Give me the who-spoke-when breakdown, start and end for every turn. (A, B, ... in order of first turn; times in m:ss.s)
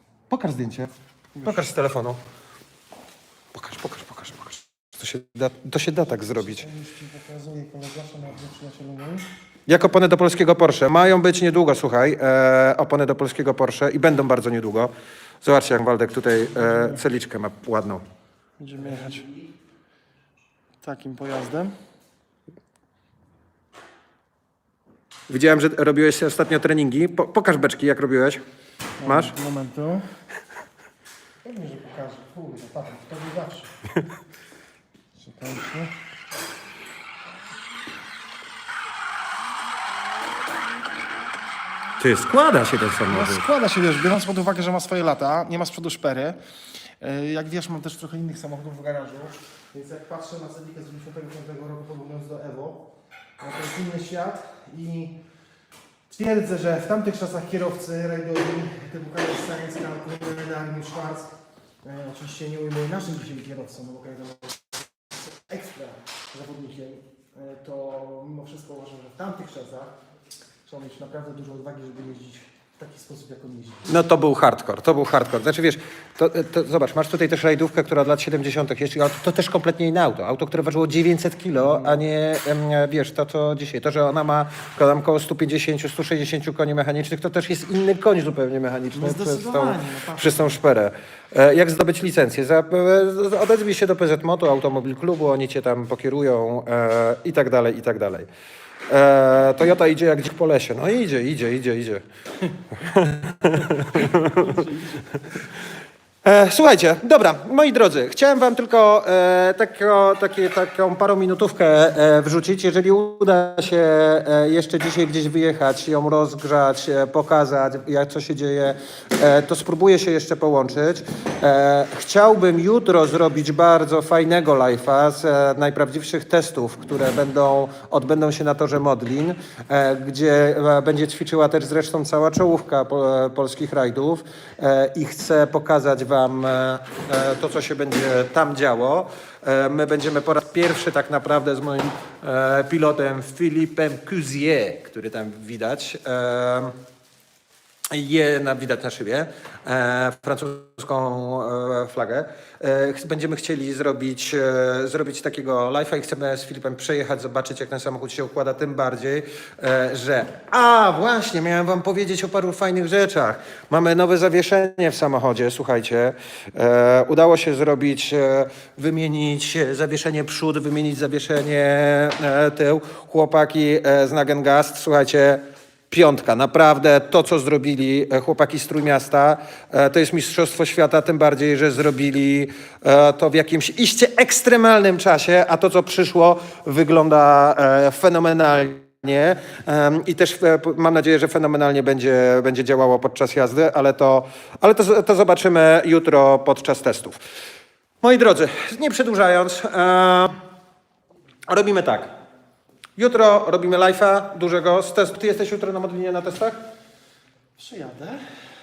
0:00.3-0:00.9 A
0:01.4-0:01.7 B
0:01.4-0:02.2 A
0:03.5-0:06.7 A
0:06.4-0:09.2 B
0:09.7-0:14.9 A
0:15.4-0:18.0 A
0:16.7-0:16.9 B
0:18.6-0:19.3 B
0:20.8-0:21.7 B
0:25.3-0:28.4 A
0:29.0-0:30.0 B
0:29.0-0:29.3 A
0:31.4-0:33.7 B
0:35.2-0:35.9 B
0:42.0-0:43.4 A
0:43.1-0:46.4 B
0:47.0-0:52.8 B
0:53.4-0:55.2 B
0:56.1-1:09.9 B
1:10.6-1:13.9 B
1:13.9-1:38.3 A
1:28.9-1:30.6 B
1:38.9-1:42.0 A
1:42.7-1:44.7 A
1:46.2-2:26.7 A
2:27.9-3:17.2 A
3:18.0-3:20.4 A
3:21.5-3:22.1 A
3:23.0-3:26.6 A
3:27.6-3:28.2 B